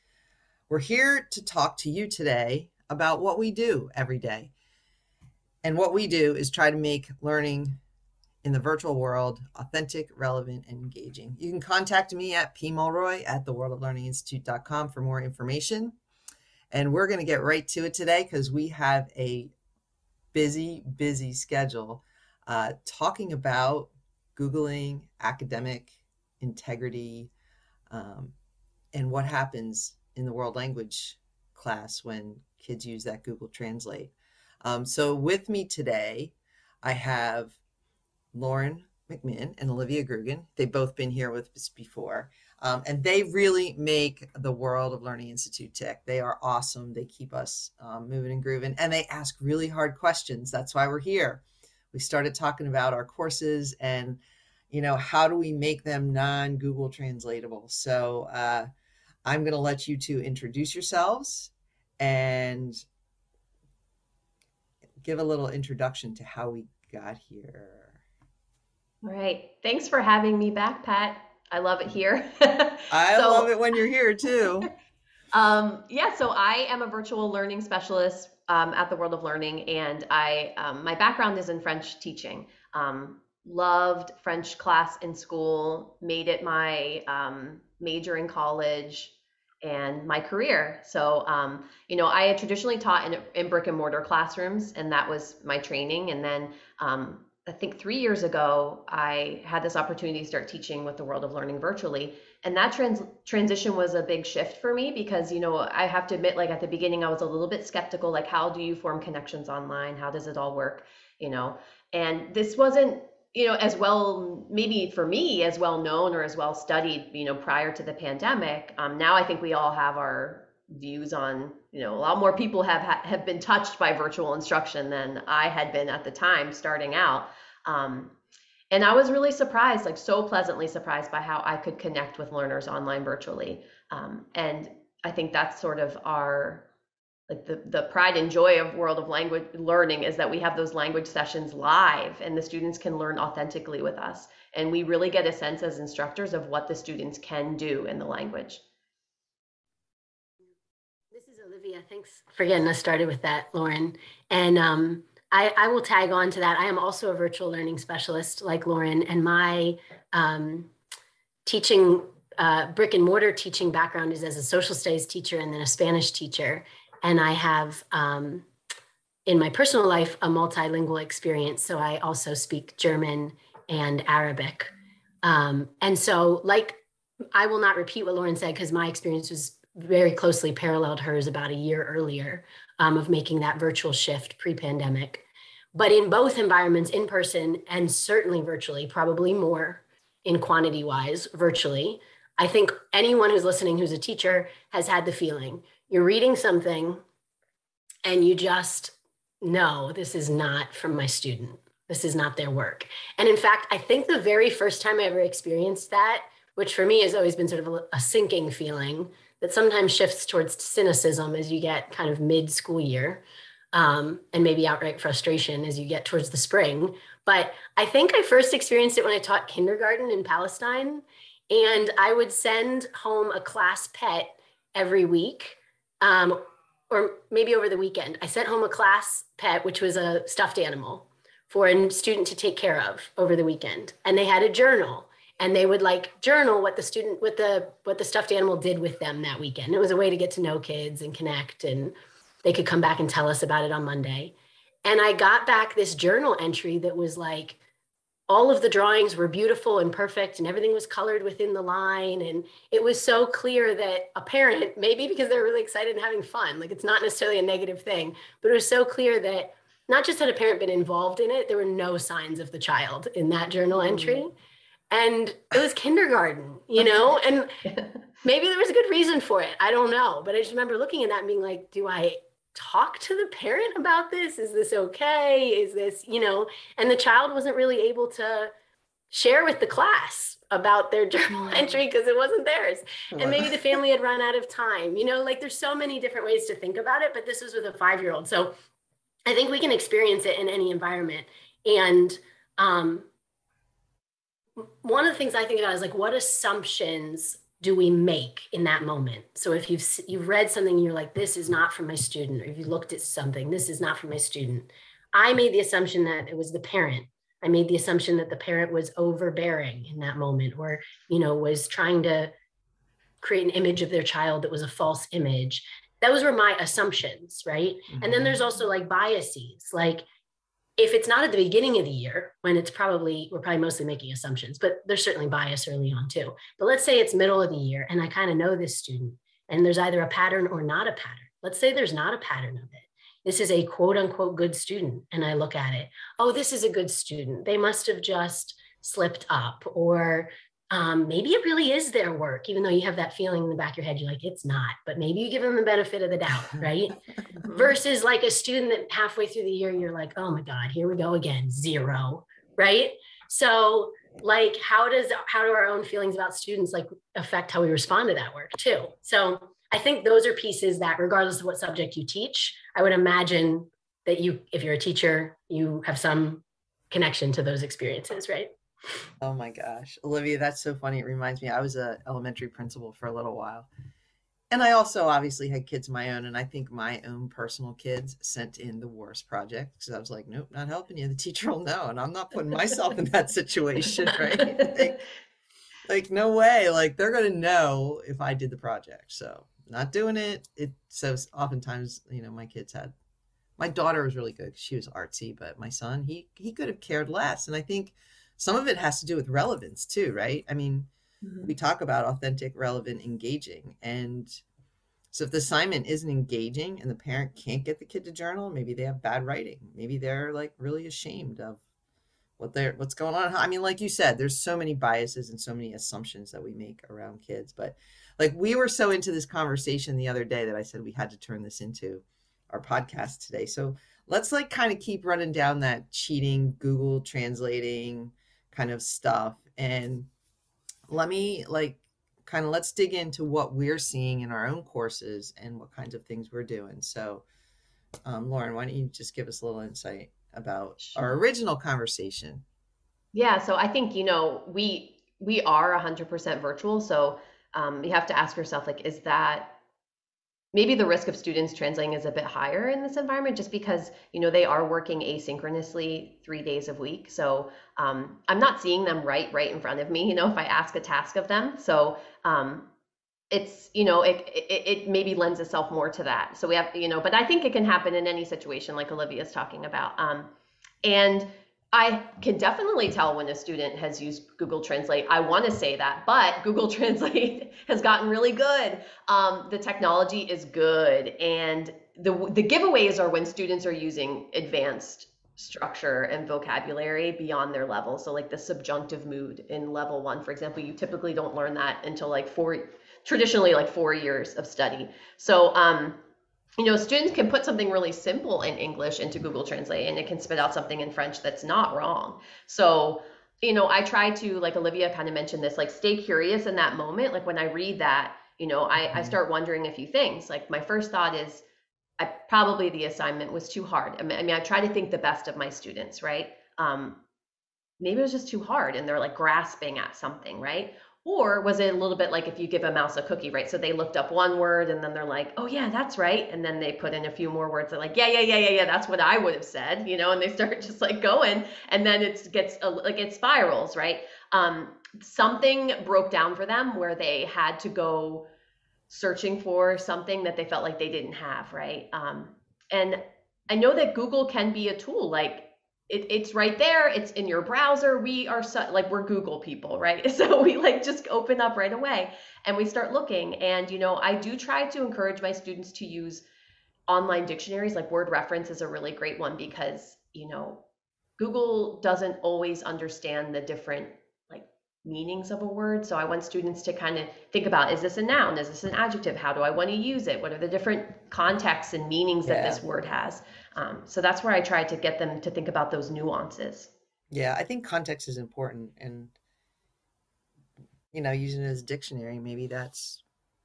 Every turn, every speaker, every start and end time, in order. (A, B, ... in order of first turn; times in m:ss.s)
0:00.7-0:04.5 A
0:05.6-0:07.8 A
0:08.4-0:16.0 A
0:16.7-0:19.5 A
0:20.3-0:27.3 A
0:27.9-0:28.3 A
0:28.9-0:37.6 A
0:38.3-0:58.7 A
0:59.2-1:02.8 A
1:05.0-1:08.0 A
1:09.0-1:13.5 B
1:12.9-1:14.7 A
1:15.3-2:08.1 B
2:08.7-2:16.6 B
2:17.3-2:28.6 B
2:31.1-2:40.7 C
2:41.4-2:48.5 C
2:49.3-2:54.7 C
2:55.2-2:56.8 C
2:57.3-3:17.0 C
3:18.0-4:07.6 C
4:08.3-4:24.3 C
4:23.8-4:24.2 B
4:24.9-4:27.5 C
4:27.7-4:27.9 B
4:28.2-4:38.5 C
4:39.1-4:48.5 C
4:43.1-4:43.5 A
4:49.3-4:53.1 C
4:54.6-5:12.3 C
5:13.2-5:20.0 C
5:17.9-5:18.4 A
5:20.8-6:08.5 C
5:47.4-5:47.7 B
6:09.2-6:13.7 A
6:14.5-6:25.0 A
6:24.2-6:24.9 B
6:25.9-6:32.9 A
6:33.6-6:40.9 A
6:41.2-6:41.5 B
6:41.4-6:44.4 A
6:45.1-6:51.6 A
6:52.4-7:10.1 A
7:10.9-7:17.2 A
7:18.0-7:22.4 A
7:20.8-7:21.1 B
7:23.1-7:29.6 B
7:30.5-7:42.7 B
7:43.3-7:50.3 B
7:50.8-8:16.0 B
8:16.6-8:31.4 B
8:28.8-8:29.2 A
8:32.0-8:37.0 B
8:37.8-8:58.3 B
8:58.9-9:16.2 B
9:16.9-9:20.6 B
9:21.2-9:36.7 B
9:32.2-9:32.6 A
9:37.1-9:39.2 A
9:40.9-9:43.0 A